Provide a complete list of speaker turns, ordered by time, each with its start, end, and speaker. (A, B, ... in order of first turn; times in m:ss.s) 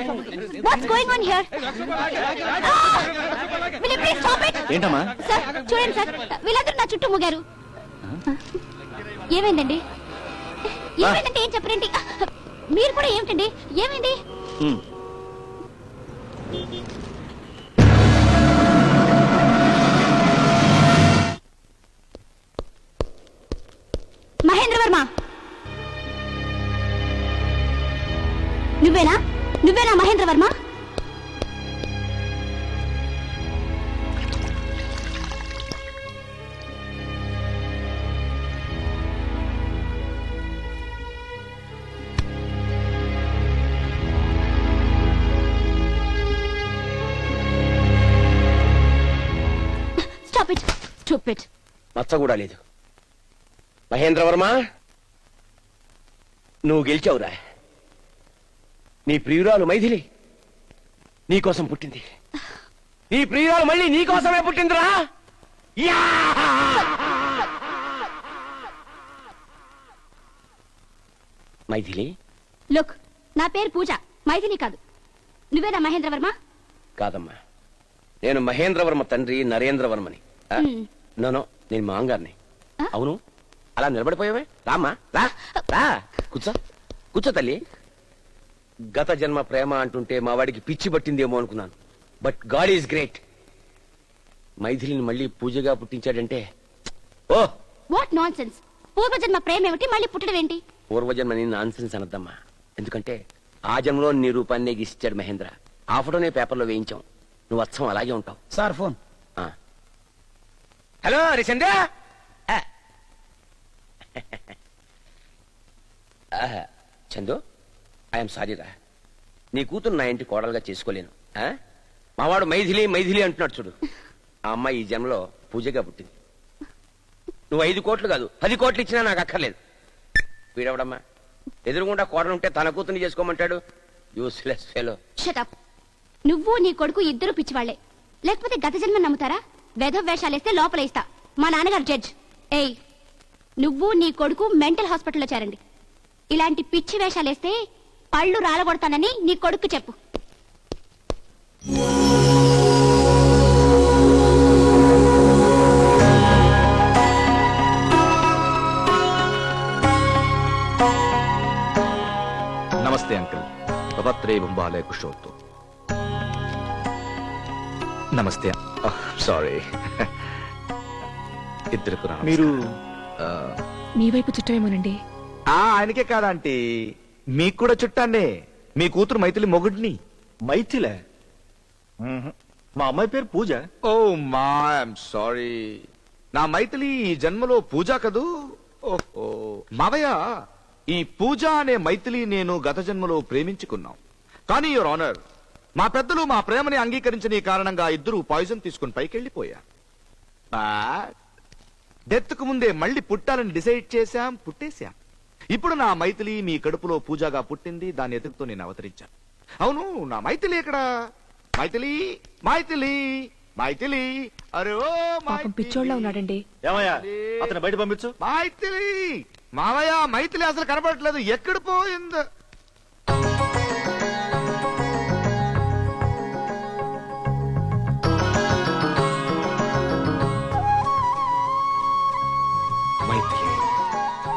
0:00.6-0:01.5 A
0:02.6-0:03.1 A
0:03.8-0:04.6 A
0:04.7-0:05.0 B
0:05.2-0:07.4 A
0:09.3-0:09.8 A
0:11.0-0:14.1 A
0:24.4-0:25.0 A
0:28.8-0:30.5 A
0:50.2-0:51.5 A
0:52.0-0:52.6 C
0:53.9-0:54.6 C
0:56.6-0:57.4 C
0:59.1-1:00.0 C
1:01.3-1:02.0 C
1:03.1-1:05.0 C
1:05.8-1:06.9 C
1:11.7-1:12.1 C
1:12.7-1:14.8 A
1:15.5-1:16.3 A
1:17.0-1:17.3 C
1:18.2-1:20.6 C
1:20.6-1:20.9 A
1:21.2-1:22.4 C
1:22.9-1:23.2 C
1:23.8-1:26.6 C
1:27.1-1:27.6 C
1:28.9-1:33.2 C
1:34.6-1:36.4 C
1:37.9-1:40.6 A
1:40.9-1:43.2 C
1:43.7-1:48.4 C
1:51.0-1:51.8 C
1:54.2-1:54.5 C
1:56.4-1:57.4 C
1:58.1-1:58.7 C
1:59.5-2:01.5 C
2:02.2-2:03.7 C
2:04.5-2:06.1 C
2:07.5-2:09.6 C
2:10.5-2:11.0 C
2:11.6-2:13.6 C
2:14.2-2:15.0 C
2:15.2-2:15.5 A
2:16.2-2:22.7 A
2:23.6-2:25.6 A
2:26.3-2:27.5 A
2:28.1-2:30.0 A
2:42.8-2:43.4 D
2:44.0-2:45.3 D
2:48.2-2:50.3 D
2:51.7-2:52.6 D
2:52.2-2:52.5 B
2:53.2-2:53.5 D
2:54.0-2:55.0 E
2:55.5-2:56.6 D
2:57.4-3:00.0 D
3:00.5-3:00.9 B
3:02.0-3:03.6 B
3:03.9-3:05.8 D
3:06.3-3:08.3 D
3:08.9-3:10.2 D
3:10.9-3:14.0 D
3:14.5-3:15.2 D
3:15.8-3:19.6 D
3:20.5-3:21.1 D
3:22.1-3:24.9 D
3:25.5-3:29.1 D
3:29.6-3:30.8 D
3:31.6-3:37.6 D
3:35.3-3:36.4 E
3:36.6-3:38.1 B
3:38.2-3:42.2 D
3:53.0-3:53.6 D